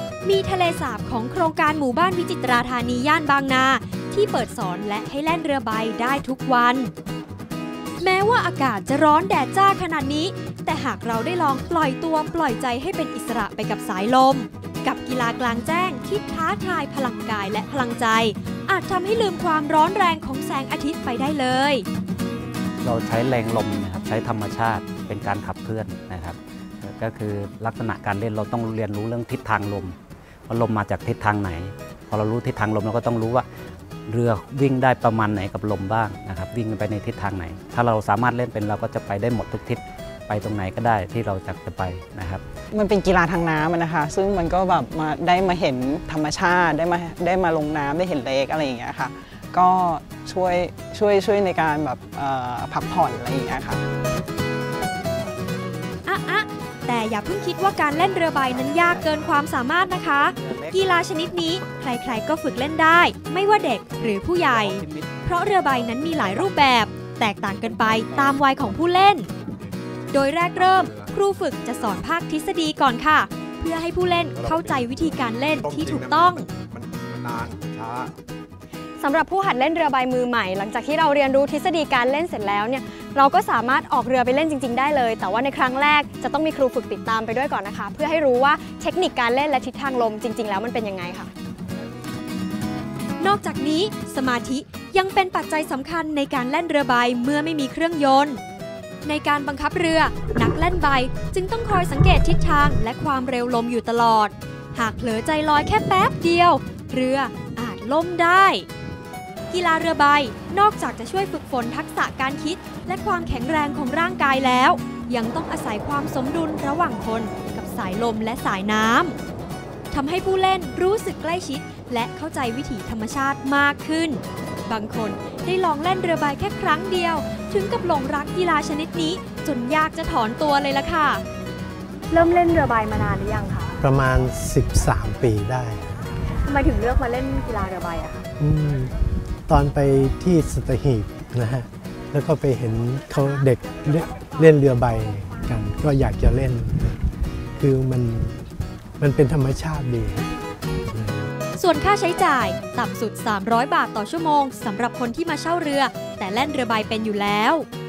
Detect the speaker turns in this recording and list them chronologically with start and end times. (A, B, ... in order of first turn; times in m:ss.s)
0:00.2-0:06.9 A
0:08.0-0:21.8 A
0:22.8-0:30.0 B
0:30.5-0:33.4 B
0:34.1-0:42.4 B
0:42.7-0:53.8 C
0:56.0-1:09.3 A
1:00.3-1:00.7 B
1:04.6-1:05.1 B
1:07.7-1:08.8 D
1:09.4-1:09.8 D
1:10.1-1:16.5 A
1:10.5-1:12.0 D
1:14.3-1:18.1 D
1:19.0-1:31.3 E
1:33.2-1:38.4 A
1:39.0-1:48.7 A
1:49.5-1:59.2 A
1:59.9-2:11.2 A
2:12.1-2:13.7 E
2:13.8-2:16.0 F
2:16.4-2:18.2 E
2:18.4-2:19.0 F
2:19.5-2:27.0 F
2:27.6-2:28.4 F
2:29.0-2:30.3 F
2:30.9-2:31.3 F
2:31.6-2:37.7 A